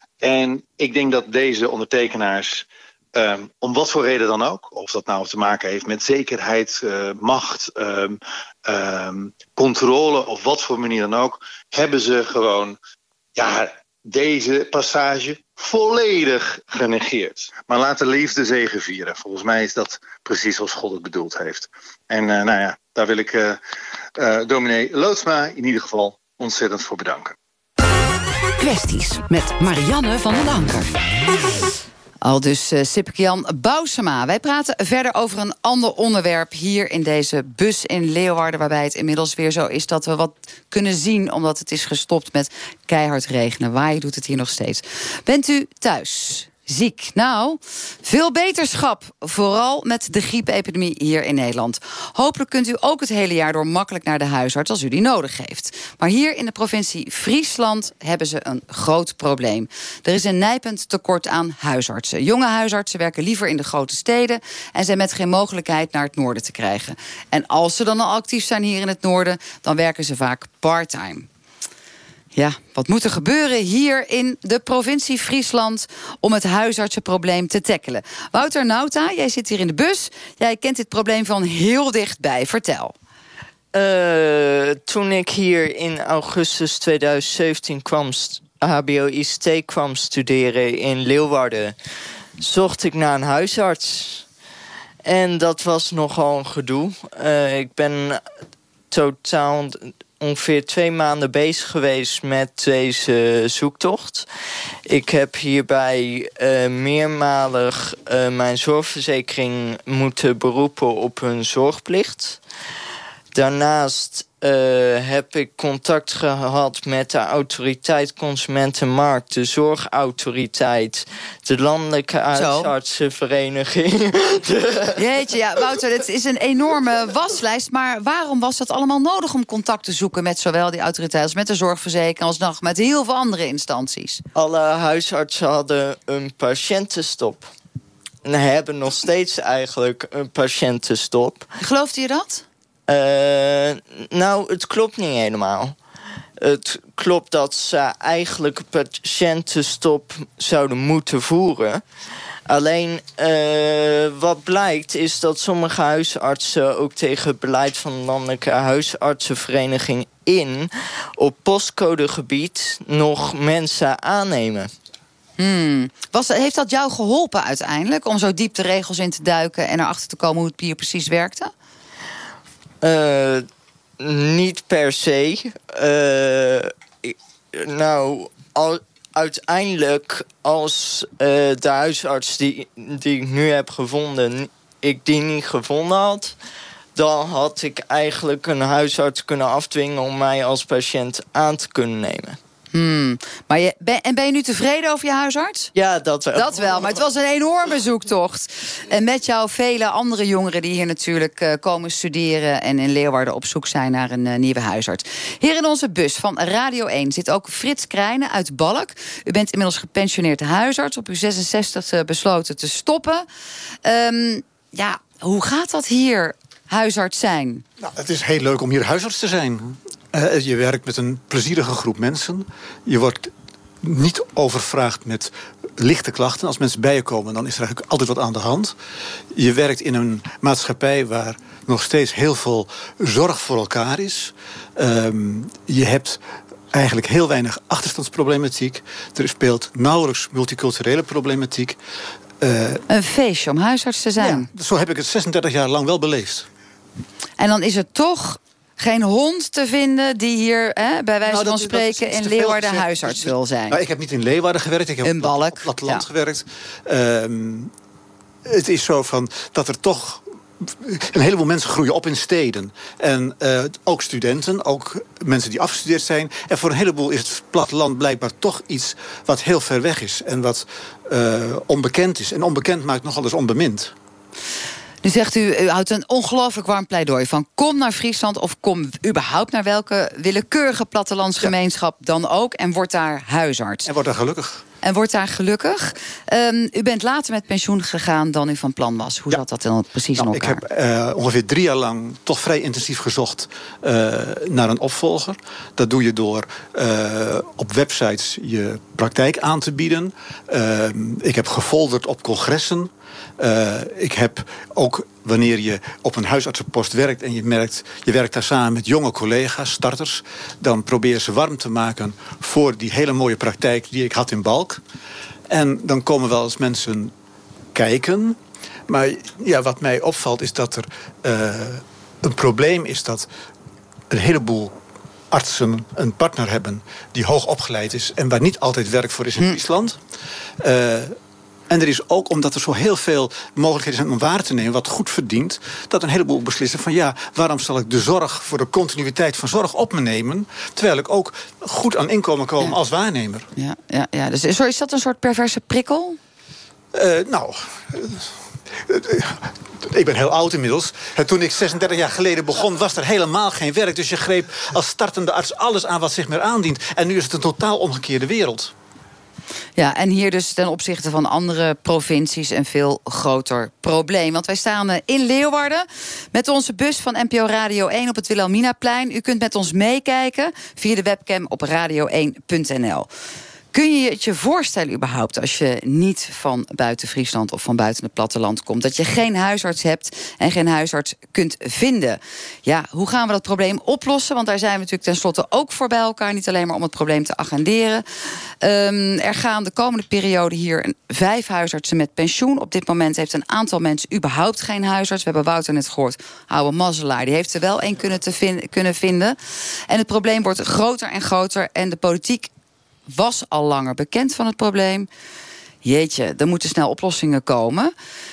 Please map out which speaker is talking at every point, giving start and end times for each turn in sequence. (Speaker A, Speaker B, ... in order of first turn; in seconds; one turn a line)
Speaker A: 0.2-12.8
Speaker A: 13.3-23.6
Speaker A: 24.2-27.3
Speaker B: 28.6-31.0
Speaker C: 32.2-71.3
Speaker C: 72.3-82.9
Speaker D: 83.7-91.8
Speaker D: 92.4-94.2
Speaker D: 95.0-98.2
Speaker D: 98.9-104.2
Speaker D: 104.9-112.4
Speaker D: 113.3-125.0
Speaker C: 122.3-122.7
Speaker C: 125.0-134.2
Speaker D: 134.3-137.5
Speaker D: 138.2-141.5
Speaker C: 141.6-142.4
Speaker D: 142.9-145.7
Speaker D: 146.4-151.8
Speaker D: 152.5-164.7
Speaker C: 165.4-171.5
Speaker D: 172.8-173.4
Speaker D: 174.0-186.3
Speaker D: 186.9-192.4
Speaker C: 192.7-195.7
Speaker D: 195.7-197.0
Speaker C: 196.3-213.2
Speaker C: 213.8-217.6
Speaker E: 217.8-223.3
Speaker E: 223.8-228.7
Speaker E: 229.3-236.2
Speaker E: 236.7-241.8
Speaker E: 242.4-242.8
Speaker C: 242.9-244.5
Speaker E: 244.2-246.4
Speaker C: 247.4-253.8
Speaker E: 251.2-257.7
Speaker C: 255.0-256.0
Speaker E: 258.4-273.9
Speaker C: 275.0-283.9
Speaker E: 283.9-284.6
Speaker C: 284.8-290.6
Speaker E: 290.1-314.8
Speaker E: 315.5-317.1
Speaker E: 317.7-318.4
Speaker E: 318.9-323.3
Speaker E: 324.1-324.7
Speaker E: 325.3-330.0
Speaker E: 330.6-331.1
Speaker E: 331.7-343.4
Speaker C: 343.6-346.2
Speaker E: 346.9-348.3
Speaker E: 348.8-358.7
Speaker C: 359.8-373.1
Speaker C: 373.7-388.0
Speaker C: 388.6-399.4
Speaker C: 399.9-402.5
Speaker C: 403.1-405.1
Speaker C: 405.8-407.9